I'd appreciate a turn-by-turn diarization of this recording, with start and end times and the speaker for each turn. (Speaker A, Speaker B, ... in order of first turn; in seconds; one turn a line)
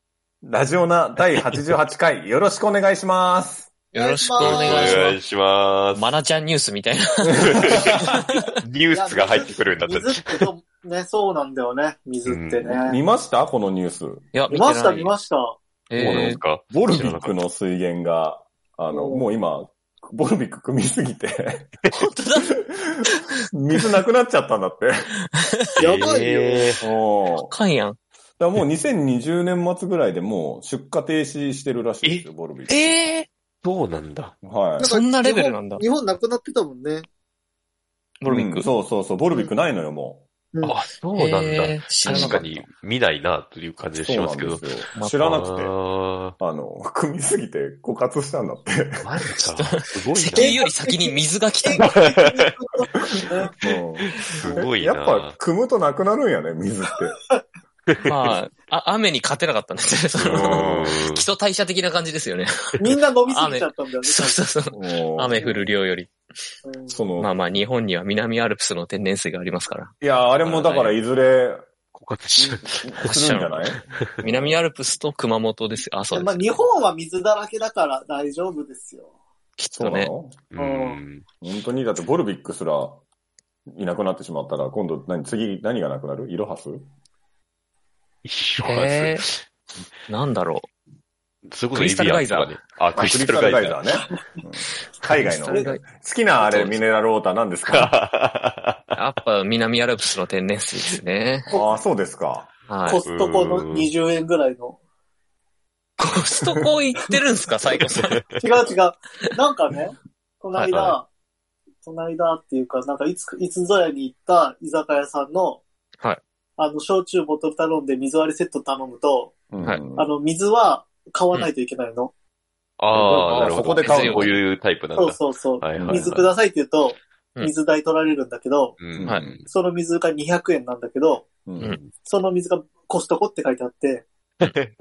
Speaker A: 0.4-3.7
Speaker B: 3.9-5.2
Speaker C: 3.9-5.1
Speaker D: 4.4-6.1
Speaker B: 6.0-8.5
Speaker A: 7.3-7.8
Speaker D: 7.4-10.5
Speaker C: 8.9-13.0
Speaker D: 12.3-12.6
Speaker A: 12.6-14.2
Speaker B: 14.3-15.1
Speaker C: 14.5-15.6
Speaker B: 15.9-16.4
Speaker D: 16.0-17.3
Speaker A: 16.0-21.7
Speaker C: 18.9-19.3
Speaker B: 21.9-23.2
Speaker A: 23.5-25.1
Speaker C: 25.8-26.8
Speaker D: 25.8-26.8
Speaker A: 26.8-27.5
Speaker B: 27.3-28.0
Speaker A: 28.4-33.0
Speaker B: 32.7-33.3
Speaker D: 33.6-34.4
Speaker A: 34.4-34.9
Speaker C: 34.8-37.1
Speaker B: 34.8-35.8
Speaker B: 38.2-38.7
Speaker A: 38.3-40.2
Speaker C: 39.3-39.5
Speaker D: 40.6-46.4
Speaker B: 41.1-42.4
Speaker A: 42.1-42.7
Speaker A: 44.0-45.7
Speaker B: 45.0-45.3
Speaker A: 46.4-49.0
Speaker D: 49.0-50.6
Speaker B: 49.4-52.0
Speaker C: 50.4-53.6
Speaker D: 52.0-52.4
Speaker A: 53.6-57.2
Speaker D: 54.0-55.4
Speaker B: 58.0-66.1
Speaker D: 60.2-61.3
Speaker A: 60.3-61.0
Speaker C: 62.8-64.4
Speaker A: 64.7-65.7
Speaker C: 66.6-67.0
Speaker A: 66.9-67.3
Speaker B: 67.2-71.0
Speaker A: 70.0-71.6
Speaker D: 71.9-73.1
Speaker A: 72.4-74.6
Speaker B: 73.1-73.7
Speaker B: 74.2-76.6
Speaker C: 76.1-79.1
Speaker B: 79.6-80.1
Speaker A: 79.8-80.4
Speaker D: 80.5-81.3
Speaker C: 80.6-81.0
Speaker A: 81.4-83.0
Speaker A: 83.7-86.9
Speaker D: 88.2-89.4
Speaker B: 88.6-89.3
Speaker B: 90.1-90.7
Speaker D: 91.5-93.8
Speaker B: 91.7-92.6
Speaker A: 92.9-97.9
Speaker B: 95.2-95.8
Speaker B: 96.4-96.8
Speaker D: 97.7-98.8
Speaker B: 99.0-101.5
Speaker C: 101.5-101.8
Speaker A: 101.5-102.5
Speaker B: 102.7-103.0
Speaker C: 102.8-104.8
Speaker D: 103.0-103.9
Speaker B: 106.0-108.3
Speaker C: 108.4-111.1
Speaker D: 110.6-111.0
Speaker C: 111.8-115.6
Speaker C: 116.6-119.4
Speaker A: 119.5-120.1
Speaker C: 120.0-122.1
Speaker D: 122.8-126.3
Speaker A: 122.9-124.4
Speaker B: 123.0-124.4
Speaker C: 125.0-128.8
Speaker A: 125.8-126.1
Speaker D: 128.8-129.4
Speaker A: 128.9-129.4
Speaker C: 129.5-131.3
Speaker A: 131.5-131.8
Speaker D: 131.6-131.9
Speaker C: 132.0-134.1
Speaker D: 134.4-134.7